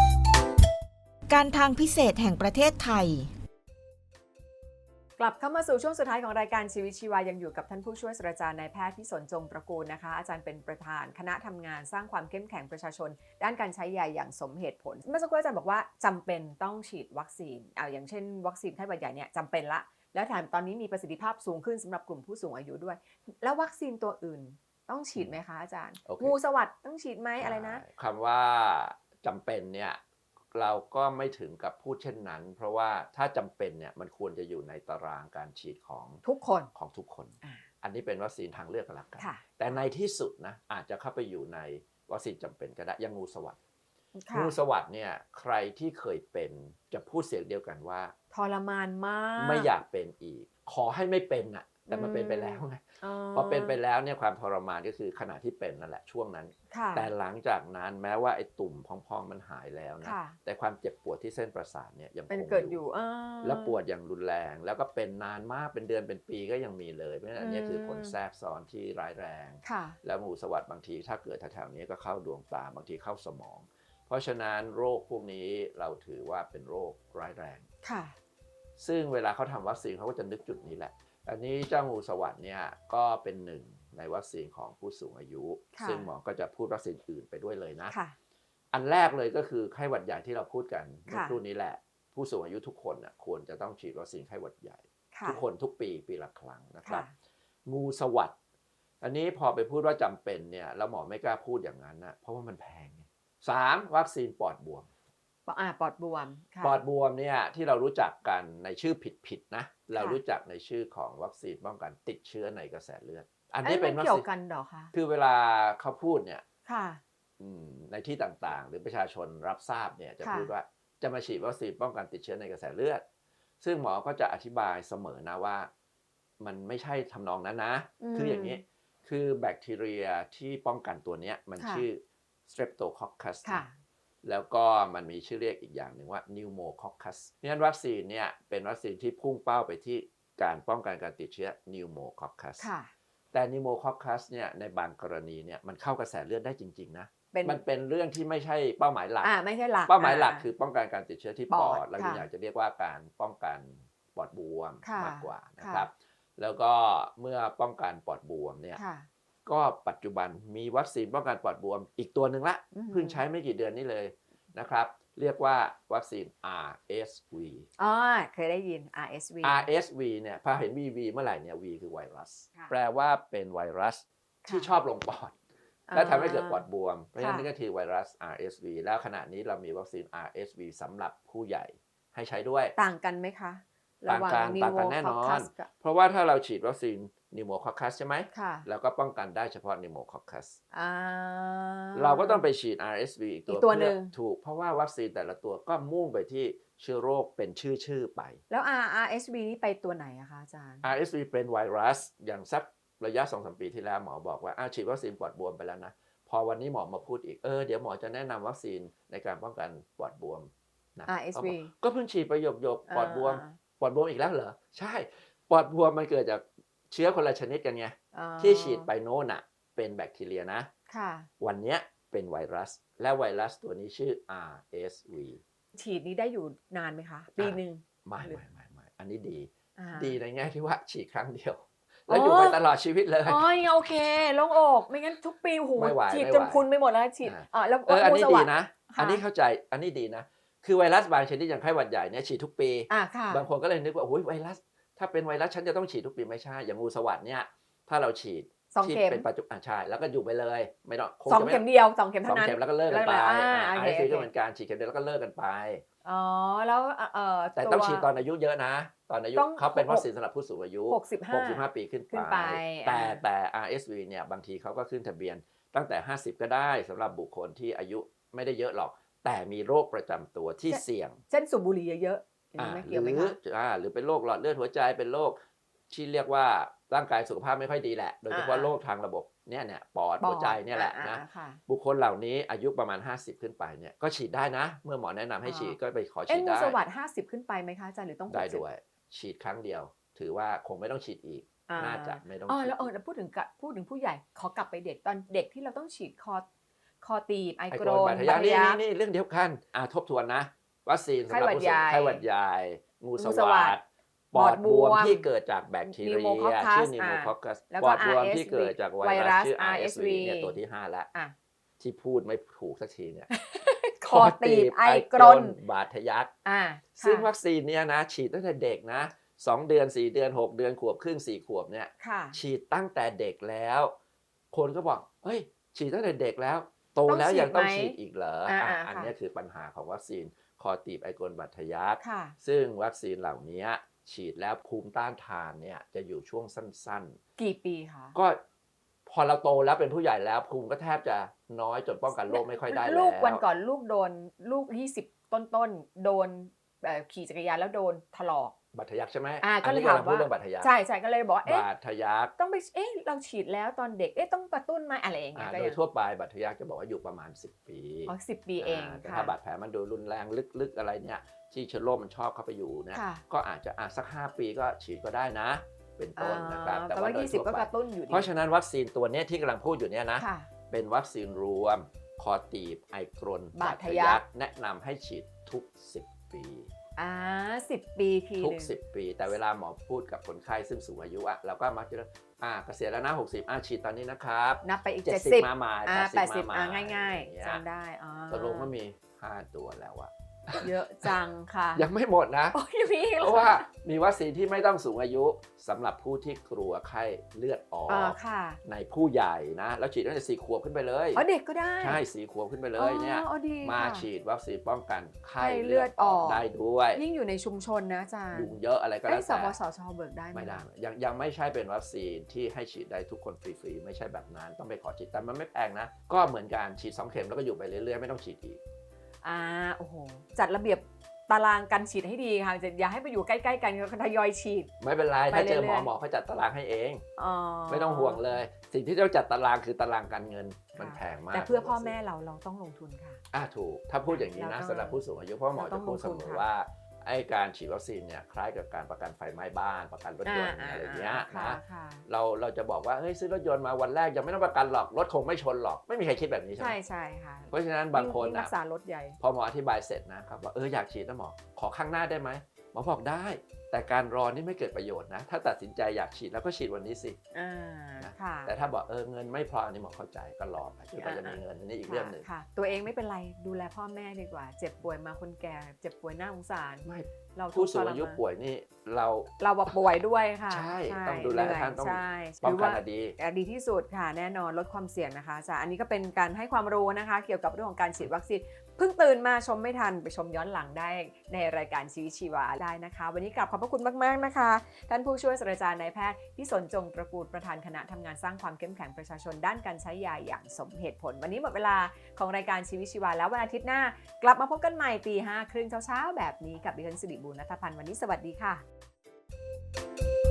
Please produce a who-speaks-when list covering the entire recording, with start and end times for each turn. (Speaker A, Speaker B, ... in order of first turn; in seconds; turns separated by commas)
Speaker A: 1.3-3.3, Speaker B: 5.2-27.8, Speaker C: 26.1-26.4, Speaker C: 27.4-30.0, Speaker C: 30.5-36.2, Speaker B: 36.2-36.7, Speaker C: 36.7-43.6, Speaker B: 39.2-39.8, Speaker B: 44.1-44.5, Speaker C: 44.3-48.1, Speaker B: 48.3-49.7, Speaker C: 49.4-62.8, Speaker B: 51.9-53.8, Speaker B: 56.7-57.1, Speaker B: 60.0-60.4, Speaker B: 62.3-63.8, Speaker C: 63.4-77.7, Speaker B: 67.4-68.2, Speaker B: 69.6-70.0, Speaker B: 77.8-78.1, Speaker C: 78.8-87.9, Speaker B: 85.7-86.1, Speaker B: 87.9-88.1, Speaker C: 88.7-97.1, Speaker B: 91.1-91.4, Speaker B: 95.1-95.4, Speaker B: 96.8-97.1, Speaker C: 97.7-98.3, Speaker C: 99.0-104.9, Speaker B: 105.5-106.8, Speaker C: 106.6-114.3, Speaker B: 109.9-110.2, Speaker B: 113.6-114.9, Speaker C: 114.9-116.4, Speaker B: 116.7-117.0, Speaker C: 117.4-123.0, Speaker B: 120.2-120.5, Speaker C: 123.6-125.7, Speaker C: 126.4-133.6, Speaker B: 128.0-128.6, Speaker B: 131.6-131.9, Speaker B: 133.4-133.7, Speaker C: 134.2-142.7, Speaker B: 142.6-142.9, Speaker C: 143.3-149.3, Speaker B: 147.3-147.6, Speaker B: 149.2-150.5, Speaker C: 149.8-158.8, Speaker B: 151.5-152.3, Speaker B: 154.8-155.9, Speaker B: 158.7-159.1, Speaker C: 159.4-167.7, Speaker B: 162.7-163.2, Speaker B: 167.8-169.7, Speaker C: 169.4-175.3, Speaker B: 174.4-174.7, Speaker B: 175.9-176.6, Speaker C: 175.9-182.7, Speaker B: 177.2-177.5, Speaker B: 182.8-185.7, Speaker C: 184.1-190.6, Speaker B: 188.3-188.7, Speaker B: 190.7-192.5, Speaker C: 191.9-198.4, Speaker B: 193.5-194.1, Speaker B: 198.5-200.9, Speaker C: 200.8-220.7, Speaker B: 211.1-211.7, Speaker B: 212.9-213.6, Speaker B: 218.1-218.9, Speaker B: 220.9-221.3, Speaker C: 221.4-225.4, Speaker B: 225.7-228.4, Speaker C: 227.4-233.4, Speaker B: 229.8-230.2, Speaker B: 232.1-232.6, Speaker B: 233.2-239.2, Speaker C: 235.7-236.7, Speaker C: 237.2-251.7, Speaker B: 242.9-243.5, Speaker B: 248.7-249.3, Speaker B: 251.3-254.3, Speaker C: 252.2-255.8, Speaker B: 256.0-258.1, Speaker C: 257.6-271.2, Speaker B: 259.3-260.1, Speaker B: 260.9-263.2, Speaker B: 270.7-273.4, Speaker C: 272.6-275.4, Speaker C: 275.9-286.8, Speaker B: 278.3-278.7, Speaker B: 280.2-281.6, Speaker B: 285.4-285.8, Speaker B: 286.3-288.6, Speaker C: 288.3-292.9, Speaker B: 291.7-296.4, Speaker B: 297.0-298.8, Speaker C: 297.7-311.1, Speaker B: 301.3-302.2, Speaker B: 303.2-303.8, Speaker B: 304.3-305.3, Speaker B: 305.8-310.6, Speaker C: 311.8-313.3, Speaker B: 313.3-315.6, Speaker C: 314.0-316.3, Speaker B: 316.4-317.3, Speaker C: 317.0-323.9, Speaker B: 322.0-322.4, Speaker C: 324.5-337.2, Speaker B: 327.1-329.1, Speaker B: 332.0-332.4, Speaker B: 337.4-338.2, Speaker C: 338.1-338.4, Speaker C: 339.1-343.4, Speaker B: 342.1-348.5, Speaker C: 348.7-350.7, Speaker B: 349.4-351.7, Speaker C: 351.4-352.3, Speaker B: 352.4-355.8, Speaker C: 355.3-376.7, Speaker B: 358.1-359.3, Speaker B: 362.9-363.2, Speaker B: 366.1-368.3, Speaker B: 370.2-370.5, Speaker B: 373.5-374.2, Speaker B: 376.9-378.7, Speaker C: 378.4-387.6, Speaker B: 384.6-388.7, Speaker C: 388.3-391.1, Speaker B: 390.5-391.9, Speaker C: 391.7-392.6, Speaker B: 392.5-393.7, Speaker C: 393.2-401.2, Speaker B: 397.9-398.6, Speaker B: 401.1-402.0, Speaker C: 401.8-407.0, Speaker B: 402.7-404.1, Speaker B: 405.4-410.6, Speaker C: 408.3-409.6, Speaker C: 410.3-418.6, Speaker B: 419.2-424.7, Speaker C: 424.8-427.0, Speaker B: 425.3-425.9, Speaker B: 427.2-428.4, Speaker C: 427.7-431.9, Speaker B: 430.8-433.2, Speaker C: 433.3-446.8, Speaker B: 434.1-435.0, Speaker B: 435.5-436.4, Speaker B: 440.2-442.0, Speaker B: 446.6-449.2, Speaker C: 447.5-448.5, Speaker C: 449.2-457.2, Speaker B: 457.3-458.6, Speaker C: 458.0-462.3, Speaker B: 461.0-468.2, Speaker C: 466.8-469.7, Speaker B: 469.4-498.6, Speaker C: 470.5-473.1